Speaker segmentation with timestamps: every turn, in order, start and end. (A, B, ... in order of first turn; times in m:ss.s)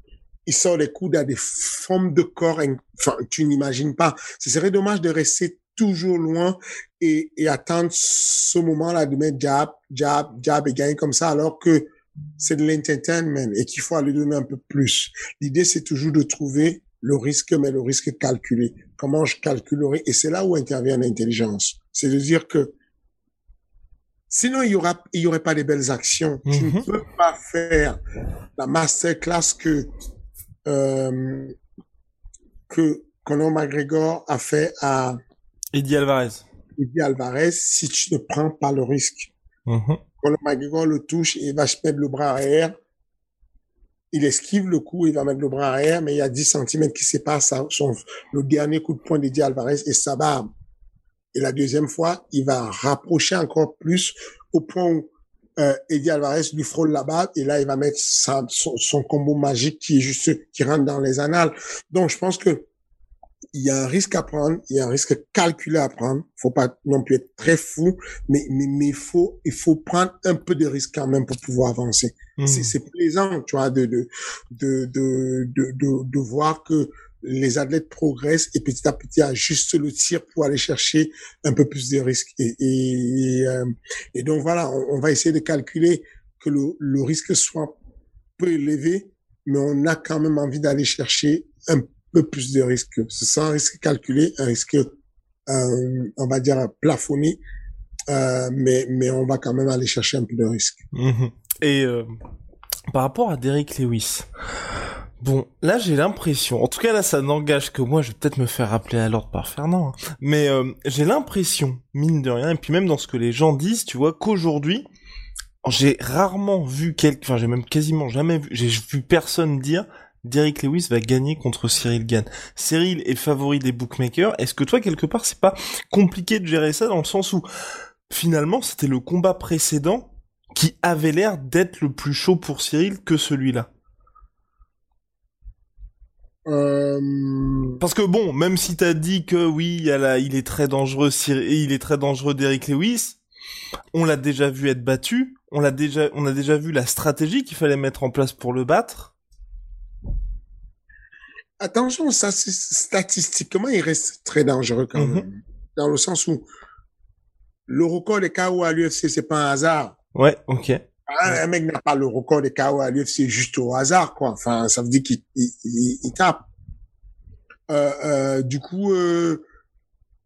0:00.5-0:22.7 A
0:24.3-0:28.0 A
0:26.4-0:26.8 B
0:28.6-0:29.9 A
0:30.6-0:31.5 A
0:32.7-0:35.2 A
0:35.7-0:36.4 B
0:36.8-0:39.3 A
0:39.7-0:40.0 B
0:40.2-0:42.7 A
0:44.1-0:50.5 A
0:51.3-0:55.1 A
0:55.6-1:02.7 A
1:03.5-1:27.7 A
1:12.4-1:12.7 B
1:28.4-1:34.9 A
1:35.5-1:37.4 A
1:38.1-1:40.8 A
1:40.9-1:42.1 B
1:42.9-1:44.3 B
1:45.2-1:54.9 B
1:55.6-2:07.4 B
2:08.1-2:13.7 B
2:16.4-2:17.8 A
2:17.8-2:23.2 B
2:23.9-2:29.1 B
2:31.6-2:36.4 A
2:34.9-2:35.2 B
2:37.7-2:40.0 A
2:40.1-2:41.3 B
2:41.1-2:46.5 A
2:47.7-2:49.4 A